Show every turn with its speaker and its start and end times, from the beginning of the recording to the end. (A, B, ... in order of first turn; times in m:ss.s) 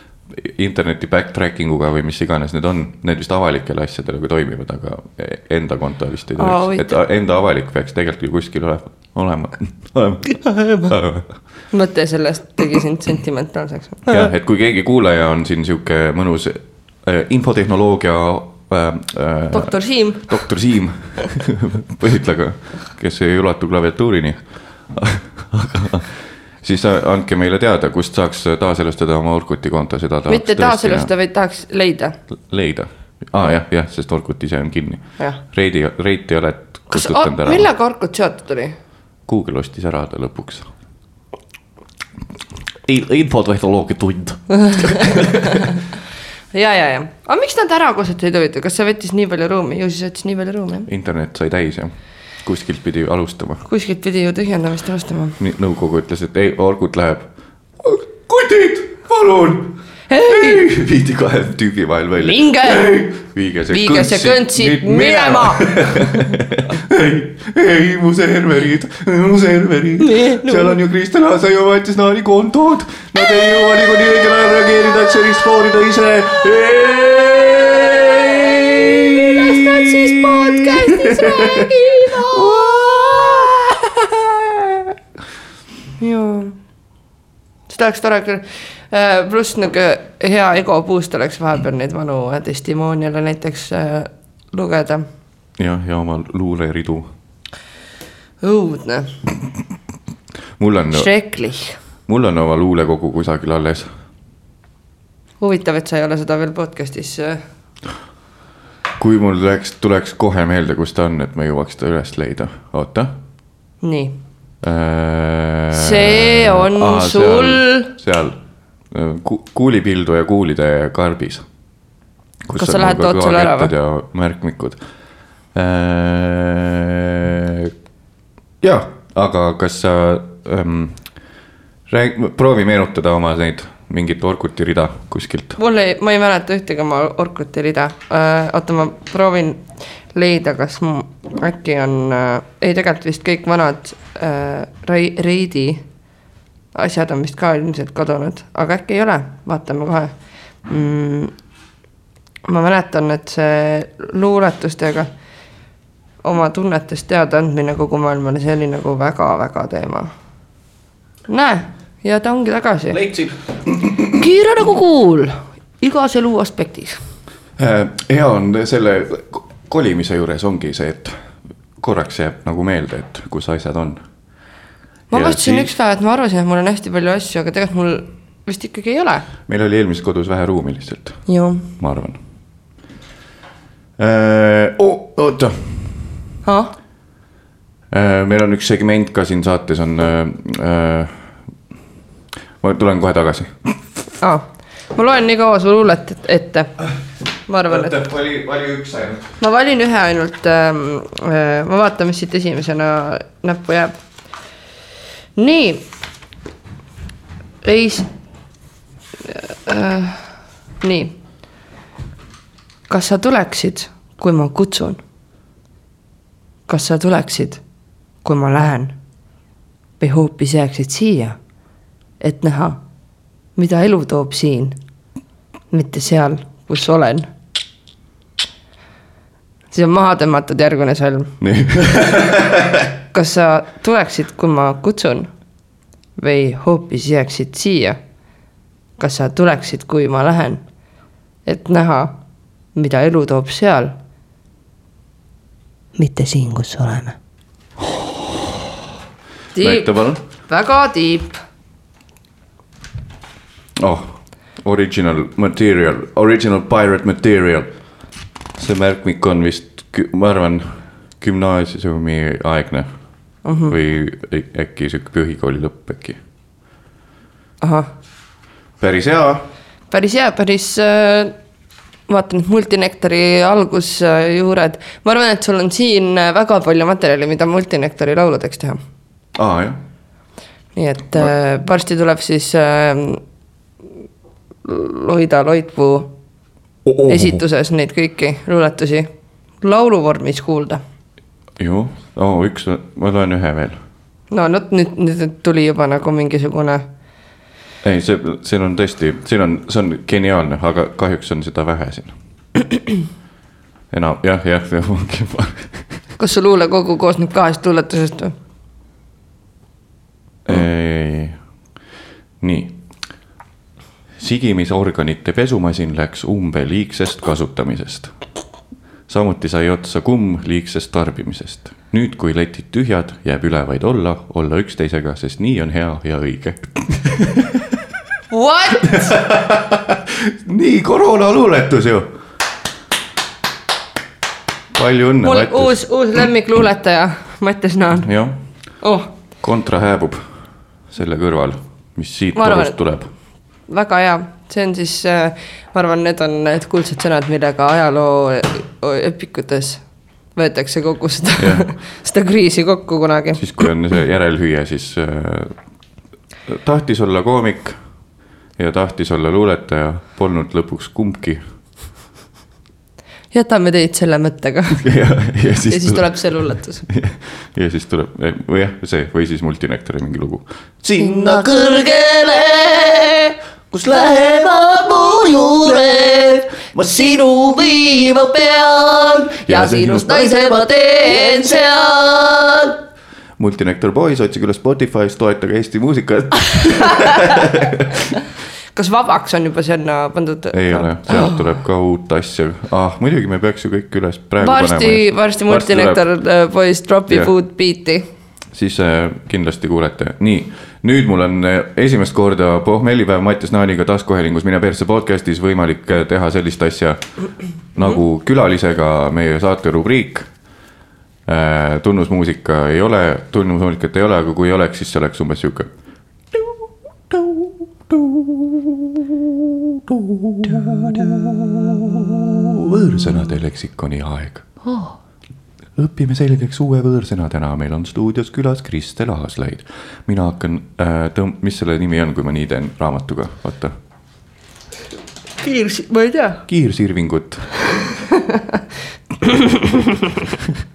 0:00.3-0:11.4 A
0:06.4-0:07.0 B
0:10.4-0:10.9 B
0:11.7-0:14.2 B
0:14.1-0:31.1 A
0:19.5-0:20.4 B
0:30.3-0:32.2 B
0:32.5-0:37.7 A
0:36.9-0:38.7 B
0:39.2-0:40.7 A
0:42.8-0:45.7 A
0:44.6-0:45.2 B
0:46.5-0:50.9 B
0:50.9-0:53.6 A
0:53.6-0:55.4 B
0:55.4-0:57.3 A
0:57.8-1:22.6 A
1:00.1-1:00.6 B
1:02.2-1:03.0 B
1:03.7-1:06.2 B
1:10.0-1:10.8 B
1:18.1-1:23.5 B
1:26.0-1:26.6 B
1:27.7-1:35.0 B
1:35.6-1:37.1 A
1:38.4-1:39.1 B
1:40.6-1:41.1 A
1:40.9-1:41.8 B
1:42.1-1:43.9 A
1:45.4-1:47.4 B
1:49.0-1:53.1 A
1:53.8-1:54.2 B
1:54.6-1:58.4 A
1:55.7-1:57.9 B
1:58.9-2:01.4 A
2:02.4-2:04.8 A
2:02.6-2:03.7 B
2:05.5-2:07.7 A
2:08.6-2:11.0 A
2:11.9-2:15.6 A
2:15.6-2:25.8 B
2:26.7-2:31.3 B
2:32.5-2:35.1 B
2:36.2-2:40.1 B
2:41.3-2:43.0 B
2:42.9-2:44.1 A
2:44.1-2:47.0 B
2:47.6-2:51.2 A
2:51.8-2:54.0 A
2:55.1-2:59.3 B
2:55.1-2:55.7 A
2:59.5-3:02.2 A
3:01.3-3:01.7 B
3:04.0-3:06.2 A
3:06.4-3:06.7 B
3:07.9-3:11.4 A
3:12.6-3:13.8 A
3:14.2-3:16.7 B
3:17.5-3:17.9 B
3:17.7-3:19.3 A
3:19.4-3:24.0 B
3:25.4-3:25.9 B
3:27.6-3:28.1 B
3:29.2-3:31.2 B
3:32.9-3:35.0 B
3:36.7-3:37.6 B
3:38.2-3:38.9 B
3:40.0-3:41.4 B
3:42.2-3:42.8 B
3:43.6-3:44.8 B
3:45.7-3:47.3 B
3:49.7-3:51.3 B
3:51.4-3:52.9 A
3:53.1-3:55.3 B
3:56.2-3:58.0 B
3:59.0-4:00.6 B
4:01.4-4:02.2 B
4:02.7-4:03.9 B
4:06.0-4:07.0 B
4:07.8-4:08.6 A
4:09.5-4:09.9 B
4:09.6-4:10.2 A
4:10.5-4:11.4 B
4:13.8-4:17.7 A
4:18.6-4:22.9 A
4:23.4-4:23.7 B
4:23.7-4:26.2 A
4:27.6-4:27.9 B
4:28.8-4:29.4 A
4:29.9-4:31.3 B
4:32.1-4:38.8 B
4:39.4-4:39.8 A
4:40.7-4:43.2 B
4:44.6-4:46.1 B
4:46.8-4:47.4 A
4:47.1-4:49.1 B
4:49.6-4:50.8 B
4:51.6-4:53.8 A
4:54.3-4:56.8 B
4:57.8-5:02.1 A
5:03.9-5:06.0 A
5:06.2-5:08.3 B
5:10.4-5:11.4 A
5:12.4-5:12.8 A
5:14.2-5:18.1 A
5:19.1-5:27.8 A
5:28.3-5:29.1 B
5:28.8-5:32.1 A
5:34.7-5:35.8 A
5:35.2-5:38.1 B
5:38.0-5:38.4 A
5:38.8-5:39.1 B
5:39.4-5:40.2 A
5:40.9-5:43.1 A
5:42.4-5:42.8 B
5:43.7-5:53.7 B
5:51.4-5:51.7 A
5:53.4-5:55.6 A
5:56.4-5:57.8 A
5:58.6-6:01.4 A
6:03.3-6:04.9 B
6:04.8-6:10.4 A
6:05.7-6:06.8 B
6:10.8-6:22.8 C
6:11.0-6:11.4 B
6:19.5-6:21.3 B
6:23.4-6:28.2 A
6:28.7-6:31.5 B
6:30.5-6:36.0 A
6:34.4-6:38.0 B
6:38.5-6:47.0 A
6:47.7-6:50.3 A
6:51.2-6:55.7 A
6:59.9-7:04.5 A
7:05.8-7:13.7 A
7:15.4-7:16.4 B
7:16.5-7:17.5 A